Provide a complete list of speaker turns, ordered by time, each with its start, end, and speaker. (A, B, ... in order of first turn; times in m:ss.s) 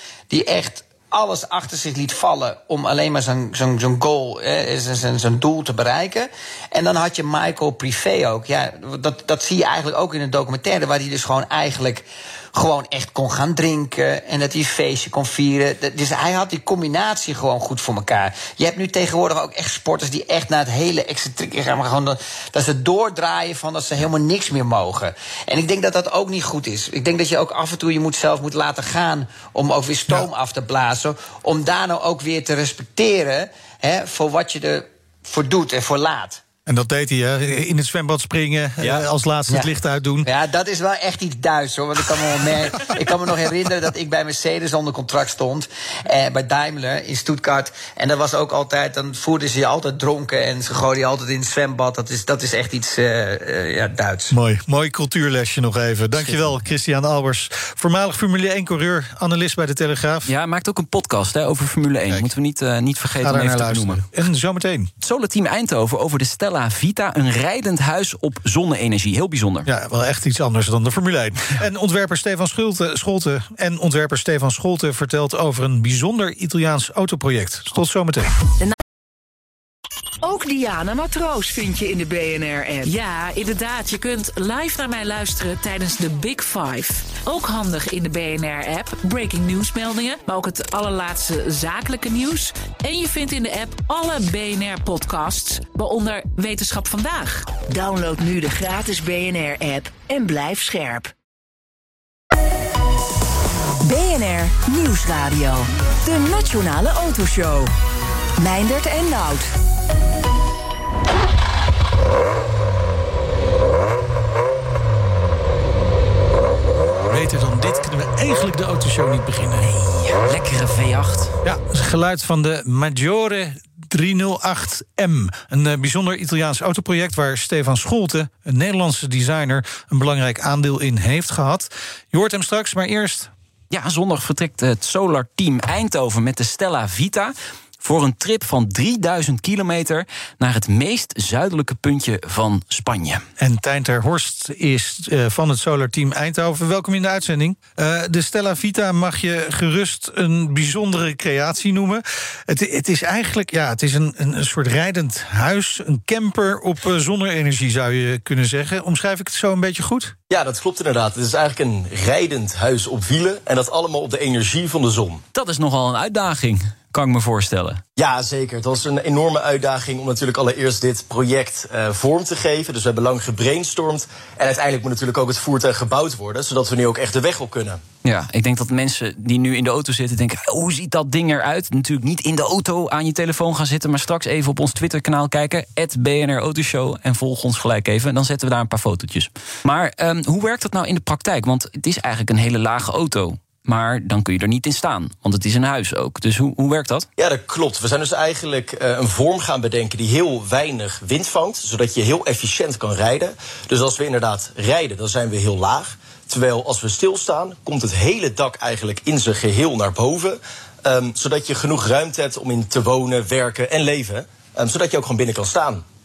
0:00.3-0:36.4 A
0:36.7-0:40.3 B
0:40.2-0:54.4 A
0:54.3-1:00.3 B
0:56.2-0:56.5 C
1:00.3-1:04.1 C
1:03.2-1:04.9 B
1:05.0-1:09.7 C
1:09.7-1:18.3 B
1:20.2-1:22.9 D
1:22.9-1:37.5 E
1:37.6-1:41.1 D
1:43.8-1:47.7 D
1:48.4-1:49.5 D
1:57.1-1:59.7 B
1:59.6-2:01.4 C
2:01.4-2:13.3 B
2:13.7-2:23.2 C
2:23.4-2:40.1 B
2:40.3-2:45.2 F
2:45.3-2:47.8 C
2:48.0-2:57.8 F
2:58.0-3:17.1 C
3:17.2-3:35.8 F